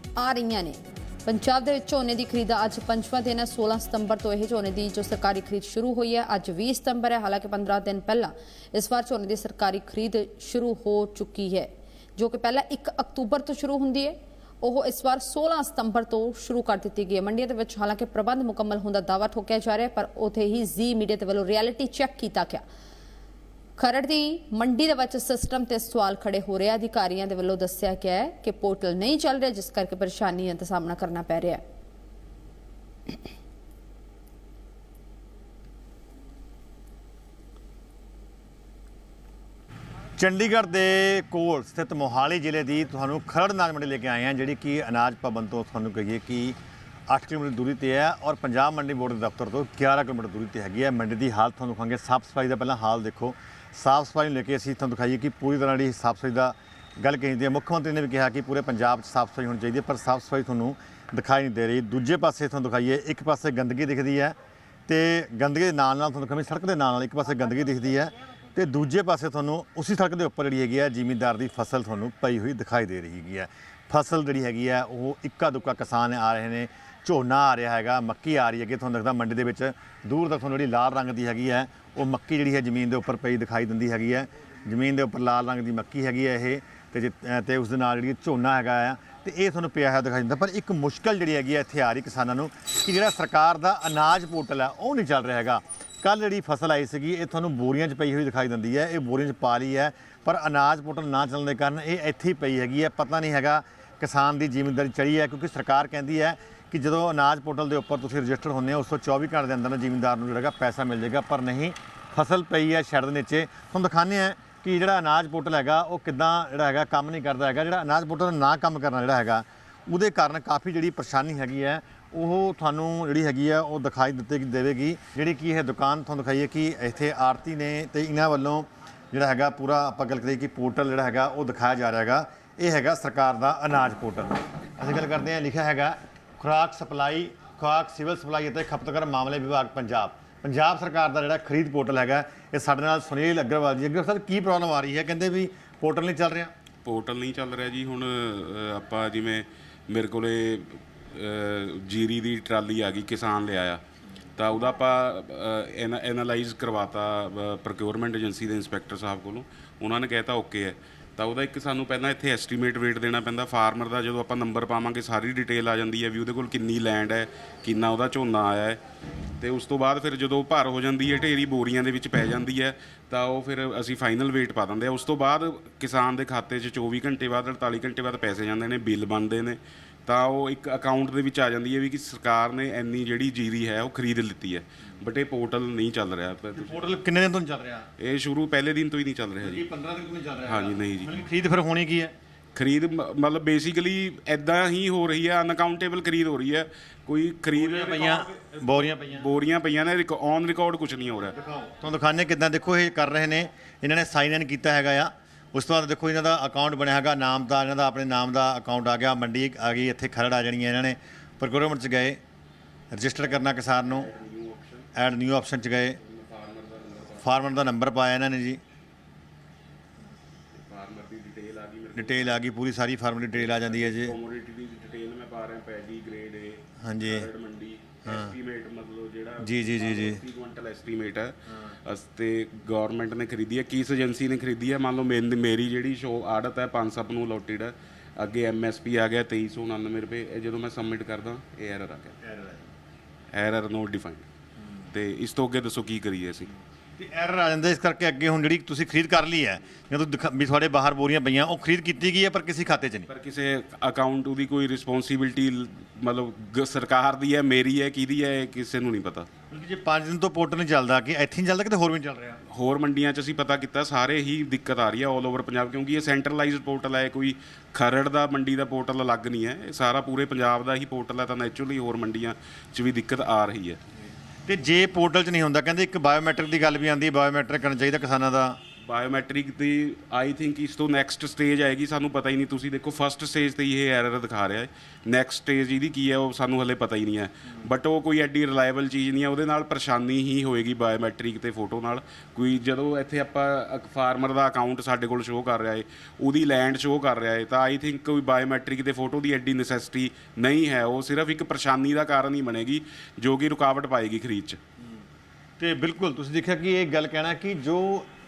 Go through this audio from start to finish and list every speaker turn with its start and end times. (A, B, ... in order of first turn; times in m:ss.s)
0:00.2-0:22.6 A
0:23.8-0:31.6 A
0:40.2-0:46.6 B
0:47.1-1:04.4 B
1:04.9-2:26.5 B
2:26.8-2:33.8 C
2:34.4-2:48.8 C
2:49.4-3:06.9 C
3:06.6-3:07.9 B
3:08.0-3:09.7 C
3:09.4-3:12.1 B
3:10.5-3:11.1 C
3:12.6-3:21.4 C
3:17.5-3:19.3 B
3:21.3-3:32.2 B
3:32.9-3:34.1 B
3:33.8-3:34.9 C
3:35.0-3:36.0 B
3:36.0-3:37.3 C
3:37.2-3:38.6 B
3:40.5-3:42.4 C
3:41.9-3:44.2 B
3:43.3-4:02.2 C
3:46.8-3:47.3 B
3:48.1-3:48.3 B
3:49.4-3:50.2 B
4:02.2-4:02.6 B
4:03.3-4:04.3 C
4:04.9-4:06.5 C
4:07.0-4:13.1 B
4:13.1-4:19.3 C
4:19.5-4:22.4 B
4:22.5-4:33.8 C
4:34.5-4:38.6 B
4:38.8-5:04.6 C
5:05.6-5:08.1 B